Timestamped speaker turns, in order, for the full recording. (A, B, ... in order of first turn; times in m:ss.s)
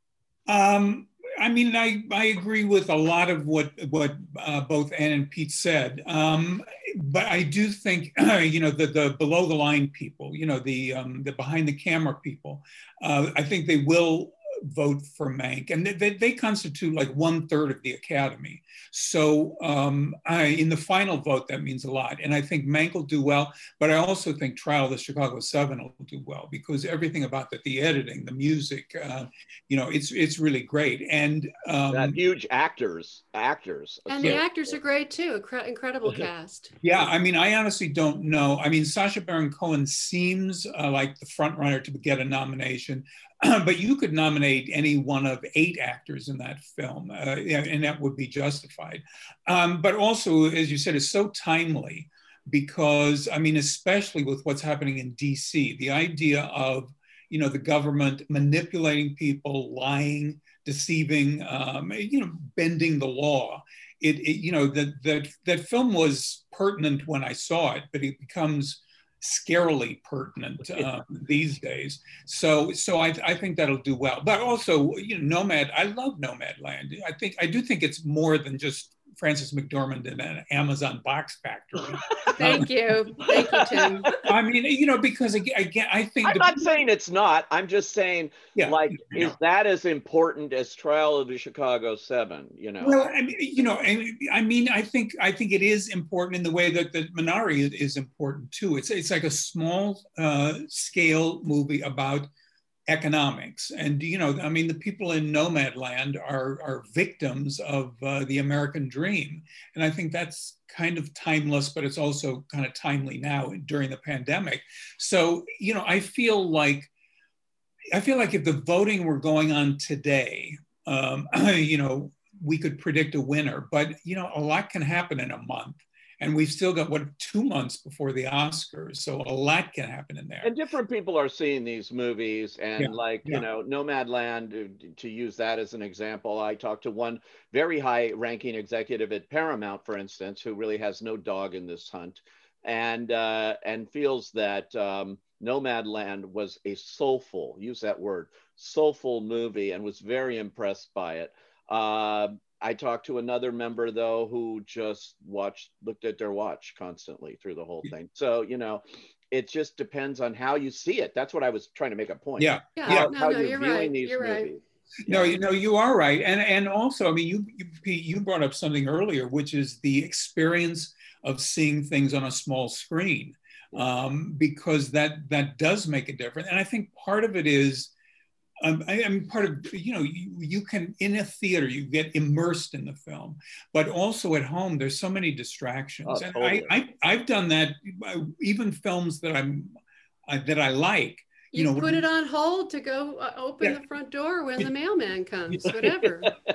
0:00.5-0:32.2 A
0:31.9-0:34.8 B
0:34.1-0:36.7 C
0:36.8-1:22.7 A
1:22.3-1:24.1 C
1:23.3-1:24.2 B
1:23.3-1:26.6 A
1:26.2-1:33.0 B
1:28.6-1:29.3 A
1:32.8-1:42.3 A
1:42.9-1:56.9 A
1:57.9-2:10.5 A
2:10.4-2:45.4 B
2:12.8-2:13.4 A
2:42.4-2:43.1 A
2:42.8-2:44.5 C
2:45.0-2:57.9 A
2:58.6-3:09.7 A
3:06.0-3:06.7 B
3:10.3-3:12.0 A
3:11.5-3:16.3 C